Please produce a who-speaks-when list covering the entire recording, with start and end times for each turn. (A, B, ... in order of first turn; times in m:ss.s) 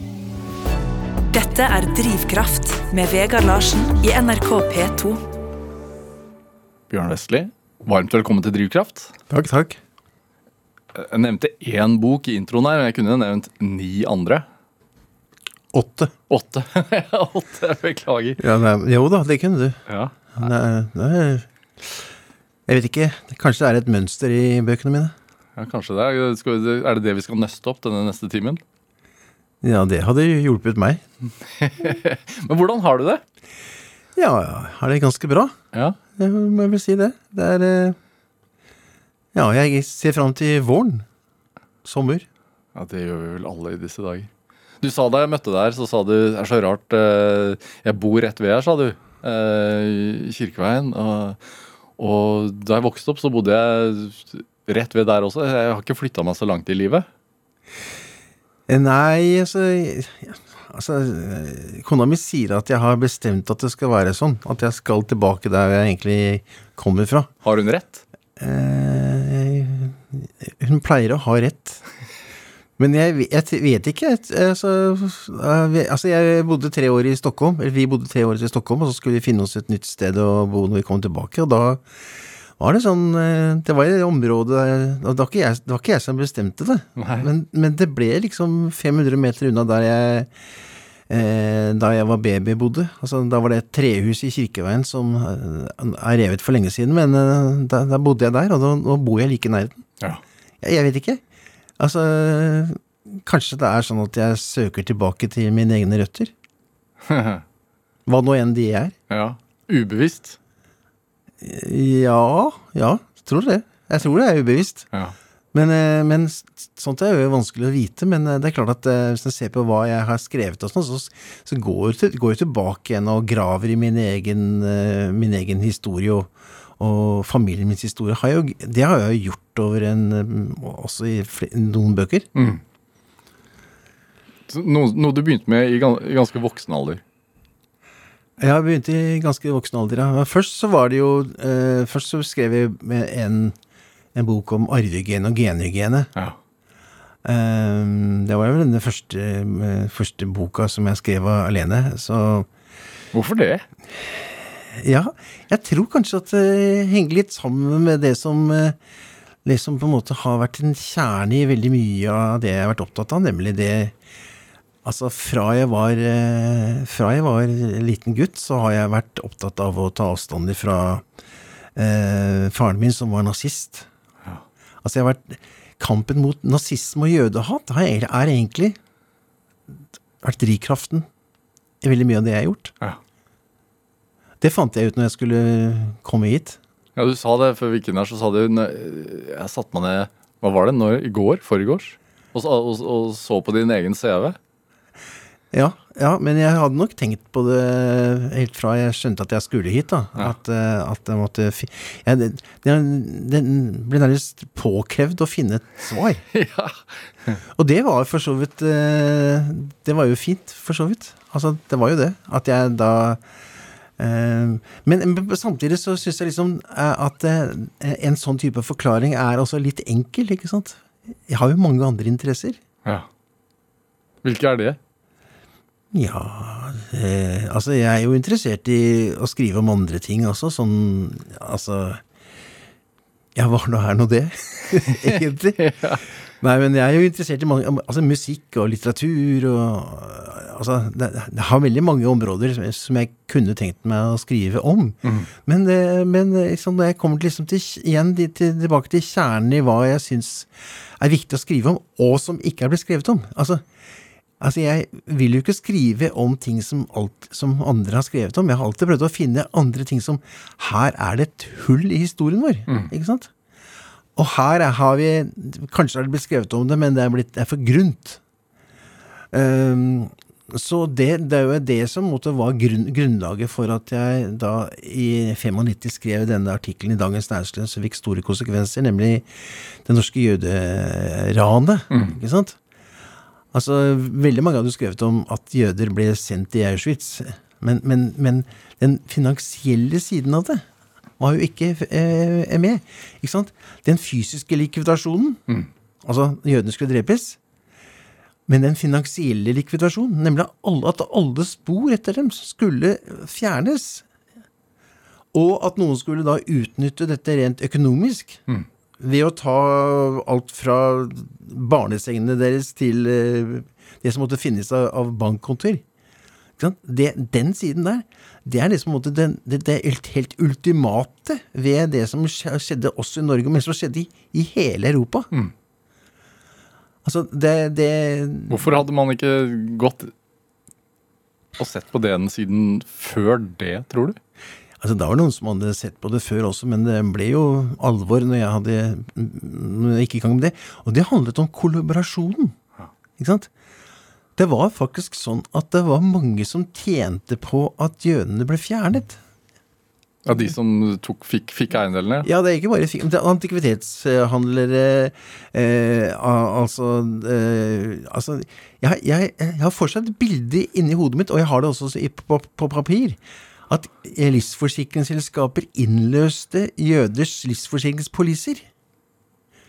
0:01.3-0:05.2 A
0:06.9-0:09.1 B
0:09.3-0:09.8 C
0:11.0-0:14.4 B
0:15.7-0:16.1 C
0:16.3-0:18.4 B
0:18.4-0:19.8 C
0:19.9-0:20.4 B
0:20.3-0:22.0 C
0:22.7-0:25.2 C
0:25.6-0:28.6 B
0:29.6-0:31.0 C
0:31.6-0:33.2 B
0:34.2-0:35.5 C
0:35.7-0:36.0 B
0:36.2-0:38.0 C
0:39.3-0:41.0 C
0:41.8-0:42.3 C
0:42.8-0:44.3 B
0:44.8-0:51.4 B
0:52.0-0:57.1 B
0:58.7-1:07.3 C
1:07.4-1:08.0 B
1:08.4-1:11.8 C
1:12.8-1:21.8 C
1:22.6-1:30.3 C
1:27.0-1:27.3 B
1:31.1-1:39.8 C
1:40.6-1:41.2 C
1:41.8-1:46.3 C
1:47.1-1:47.4 B
1:48.1-1:49.0 C
1:49.1-1:50.4 B
1:51.4-1:54.9 C
1:55.5-2:12.3 C
2:12.4-2:12.6 B
2:14.5-2:17.0 B
2:18.4-2:23.6 C
2:24.1-2:26.1 C
2:27.2-2:32.5 C
2:33.1-2:33.6 B
2:34.0-2:38.8 C
2:39.4-2:43.9 C
2:44.8-2:51.0 C
2:51.8-2:53.9 C
2:54.8-2:58.8 C
3:00.2-3:01.1 C
3:01.8-3:02.8 C
3:04.4-3:06.6 C
3:07.0-3:14.4 B
3:15.5-3:26.2 C
3:26.3-3:27.4 B
3:27.6-3:33.2 C
3:34.0-3:42.6 C
3:44.2-3:44.8 B
3:45.9-3:52.0 C
3:53.4-3:55.7 C
3:55.0-3:56.0 B
3:56.4-4:13.6 C
4:05.0-4:05.3 B
4:14.4-4:23.3 C
4:24.2-4:28.2 C
4:29.3-4:39.3 C
4:39.8-4:42.6 C
4:41.9-4:42.2 B
4:43.5-4:50.6 C
4:51.2-4:55.4 C
4:56.0-4:57.4 C
4:58.5-5:04.0 C
5:05.3-5:08.4 C
5:09.0-5:15.8 C
5:16.6-5:25.3 C
5:27.0-5:28.8 C
5:28.5-5:30.1 B
5:31.6-5:34.2 B
5:34.8-5:42.6 C
5:43.2-5:43.5 C
5:44.4-5:49.2 C
5:50.3-5:52.3 B
5:52.2-6:03.2 C
6:03.7-6:08.7 C